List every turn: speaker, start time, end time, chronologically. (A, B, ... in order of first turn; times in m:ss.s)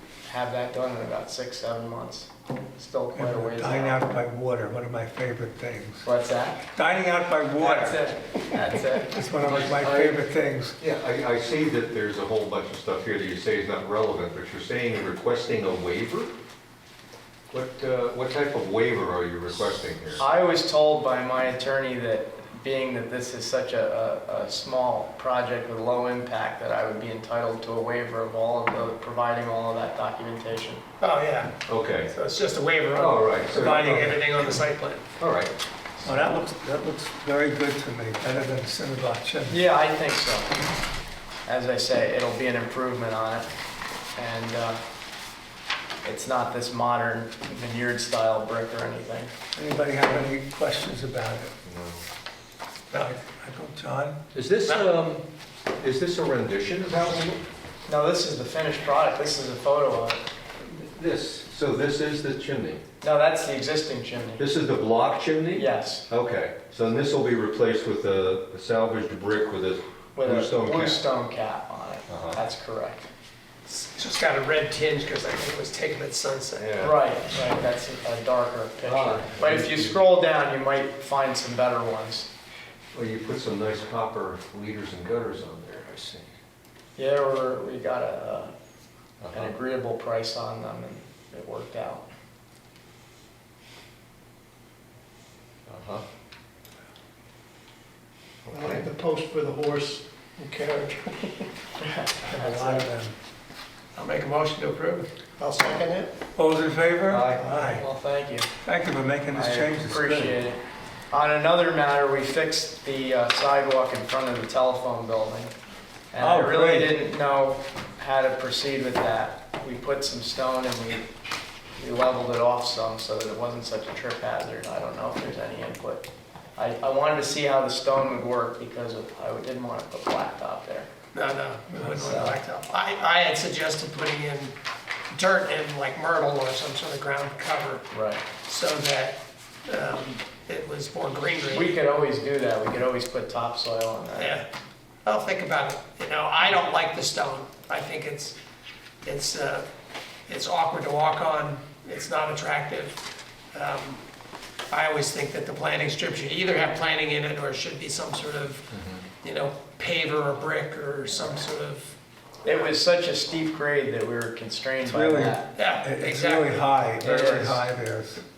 0:00.2-0:04.0 A
0:03.1-0:06.0 B
0:06.0-0:06.7 A
0:06.7-0:08.0 B
0:07.6-0:09.2 A
0:09.0-0:10.8 B
0:09.4-0:10.2 C
0:10.8-0:16.3 C
0:17.5-0:20.2 C
0:20.1-0:30.8 A
0:31.0-0:31.6 D
0:31.7-0:32.1 C
0:32.1-0:35.0 D
0:32.9-0:34.1 C
0:33.5-0:34.2 B
0:35.2-0:35.5 C
0:36.0-0:39.6 B
0:39.5-0:40.5 A
0:41.4-0:43.5 A
0:44.2-0:44.8 A
0:46.0-0:49.3 A
0:49.5-0:51.5 B
0:51.6-0:52.0 C
0:52.9-0:54.2 B
0:54.3-0:57.4 C
0:54.6-0:54.9 D
0:57.9-1:00.2 A
1:00.6-1:02.8 C
1:03.0-1:04.4 A
1:04.4-1:11.0 C
1:05.5-1:06.1 A
1:10.1-1:13.1 A
1:12.1-1:12.4 C
1:13.7-1:16.6 D
1:16.6-1:17.0 C
1:16.8-1:22.3 A
1:18.8-1:20.0 C
1:22.9-1:26.2 C
1:27.0-1:28.5 A
1:29.2-1:29.5 C
1:29.3-1:32.1 A
1:35.7-1:36.0 C
1:38.5-1:38.9 C
1:38.5-1:41.3 E
1:41.8-1:42.9 A
1:42.3-1:43.1 B
1:43.9-1:46.1 D
1:46.3-1:47.8 B
1:47.1-1:47.4 C
1:47.4-1:48.5 A
1:48.6-1:50.4 B
1:49.3-1:55.5 A
1:56.1-2:01.1 A
1:56.2-1:56.9 B
2:01.8-2:10.9 A
2:11.1-2:14.5 D
2:11.7-2:12.4 B
2:12.0-2:12.3 A
2:15.1-2:17.9 D
2:17.9-2:18.2 A
2:18.4-2:21.8 D
2:21.5-2:24.4 A
2:24.1-2:24.4 D
2:25.0-2:28.4 D
2:29.0-2:29.6 D
2:30.3-2:33.0 D
2:33.5-2:34.0 D
2:34.7-2:42.0 D
2:38.7-2:39.0 C
2:42.4-2:45.5 A
2:44.8-2:48.2 B
2:45.6-2:46.6 D
2:47.0-2:47.6 A